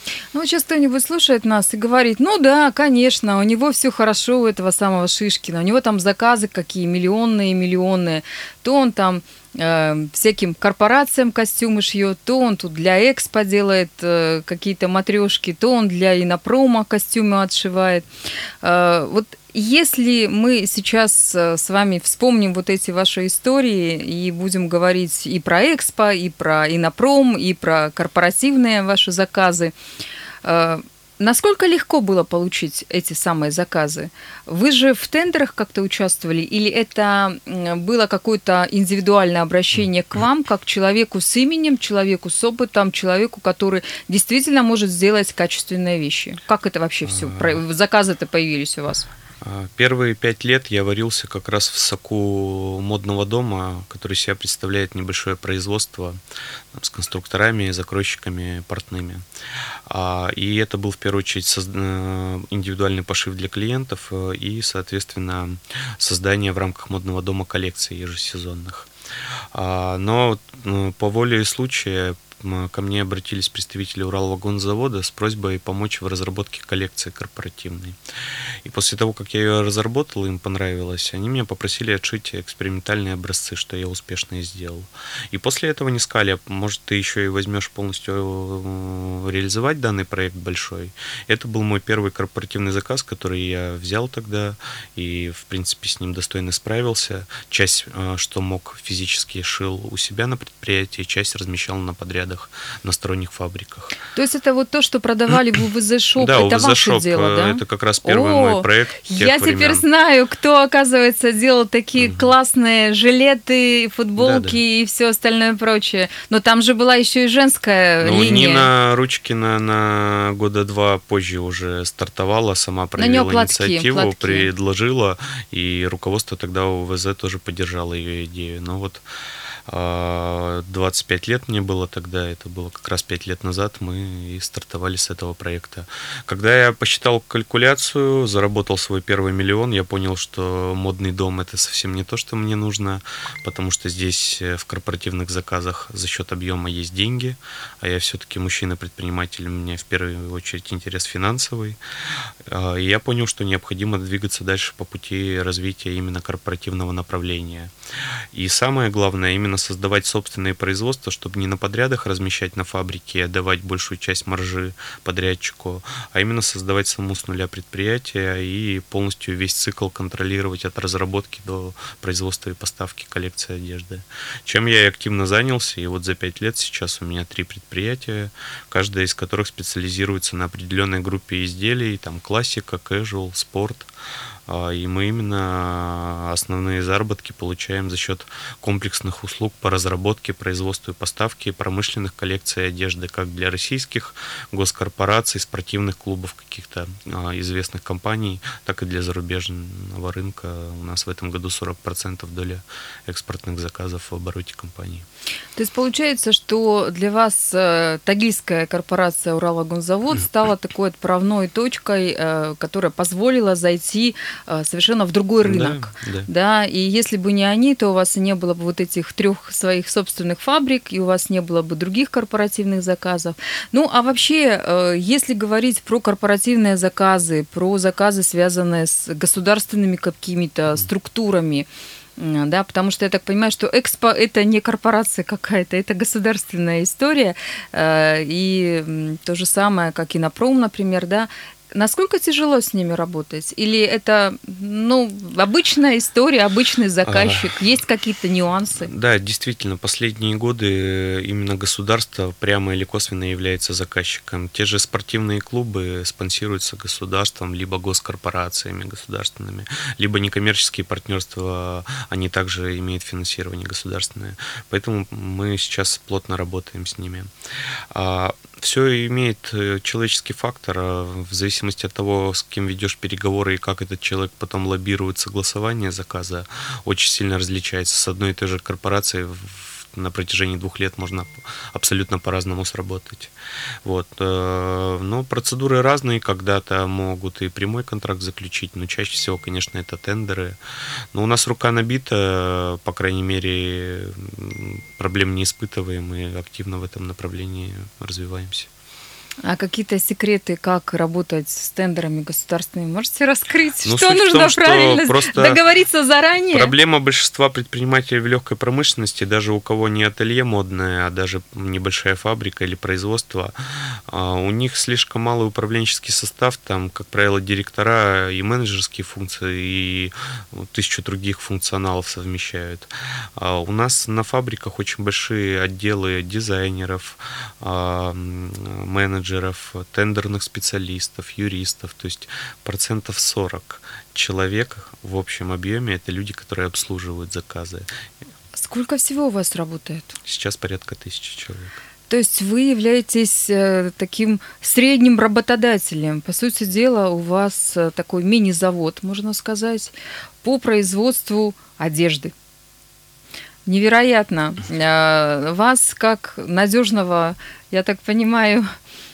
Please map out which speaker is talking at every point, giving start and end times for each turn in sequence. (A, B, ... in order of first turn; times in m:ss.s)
0:00.3-0:18.0 A
0:18.6-0:29.7 A
0:30.4-0:49.1 A
0:47.0-0:47.6 B
0:49.4-0:56.2 B
0:56.7-0:59.2 B
0:59.9-1:08.9 B
1:09.5-1:18.0 B
1:18.6-1:43.9 B
1:44.1-1:58.7 A
1:46.2-1:49.8 B
1:52.0-1:52.3 B
1:54.2-1:54.6 B
1:58.0-2:09.0 B
2:03.0-2:04.5 A
2:09.7-2:31.8 B
2:32.4-2:37.7 B
2:38.3-3:03.9 B
3:04.5-3:25.0 B
3:25.6-4:08.9 A
3:35.4-3:36.3 B
4:07.0-4:07.6 B
4:08.8-4:27.3 B
4:27.9-4:43.3 B
4:43.8-4:50.6 B
4:51.1-4:58.7 B
4:59.4-5:06.7 A
5:03.8-5:05.6 B
5:06.5-5:37.9 B
5:38.5-5:40.2 A
5:40.2-5:41.8 B
5:42.1-5:52.3 A
5:53.6-5:58.7 A